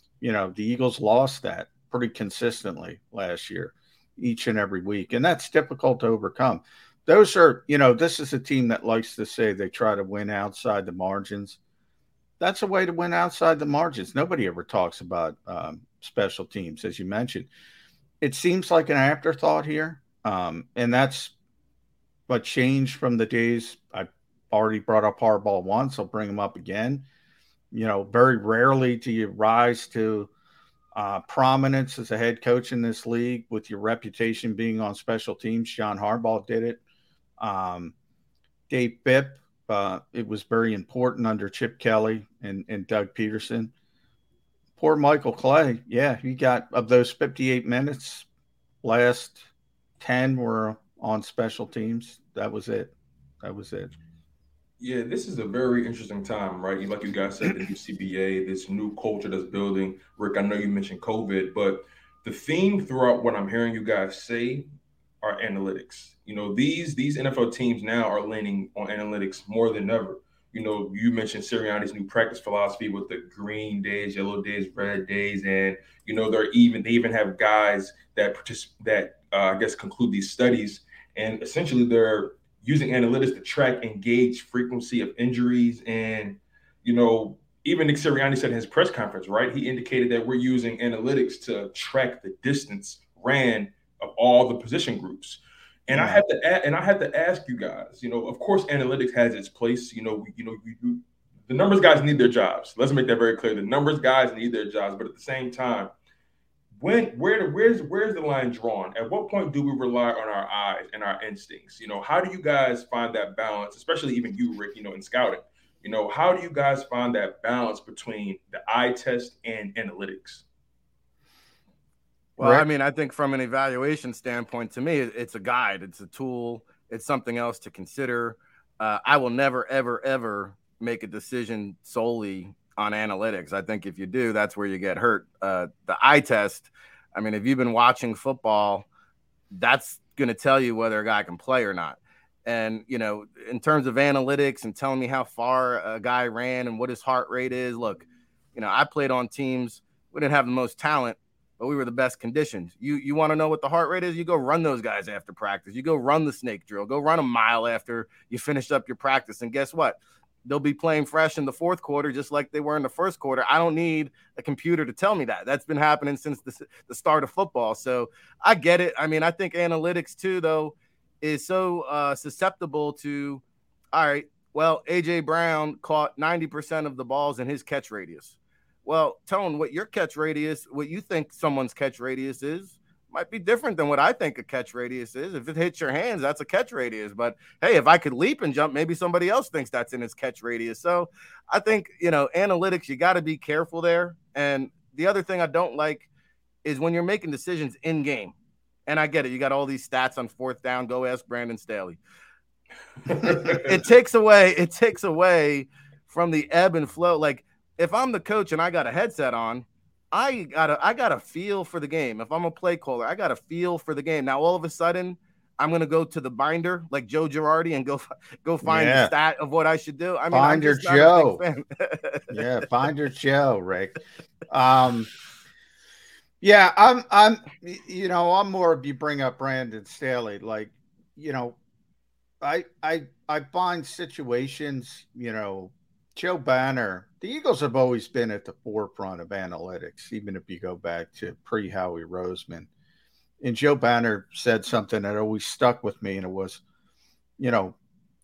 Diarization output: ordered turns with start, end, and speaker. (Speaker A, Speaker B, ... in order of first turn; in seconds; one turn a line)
Speaker A: 0.2-11.6
Speaker A: 12.4-17.5
Speaker A: 18.2-21.3
Speaker A: 22.3-27.1
Speaker A: 27.7-30.3
Speaker A: 30.9-36.8
Speaker A: 37.4-37.9
Speaker A: 38.7-43.7
Speaker A: 44.8-48.2
Speaker A: 48.8-49.5
Speaker A: 50.0-53.9
Speaker B: 54.8-64.7
Speaker B: 65.2-105.9
Speaker A: 95.9-96.2
Speaker B: 106.8-120.4
Speaker C: 122.4-138.8
Speaker A: 122.4-122.7
Speaker C: 139.5-173.4
Speaker C: 173.9-196.1
Speaker C: 196.6-198.3
Speaker C: 198.9-202.0
Speaker B: 203.1-203.7
Speaker C: 203.2-222.4
Speaker A: 218.6-219.1
Speaker A: 220.3-221.4
Speaker A: 222.3-224.0
Speaker A: 224.5-225.1
Speaker A: 226.4-231.6
Speaker A: 232.4-242.7
Speaker A: 243.4-246.6
Speaker A: 247.4-247.7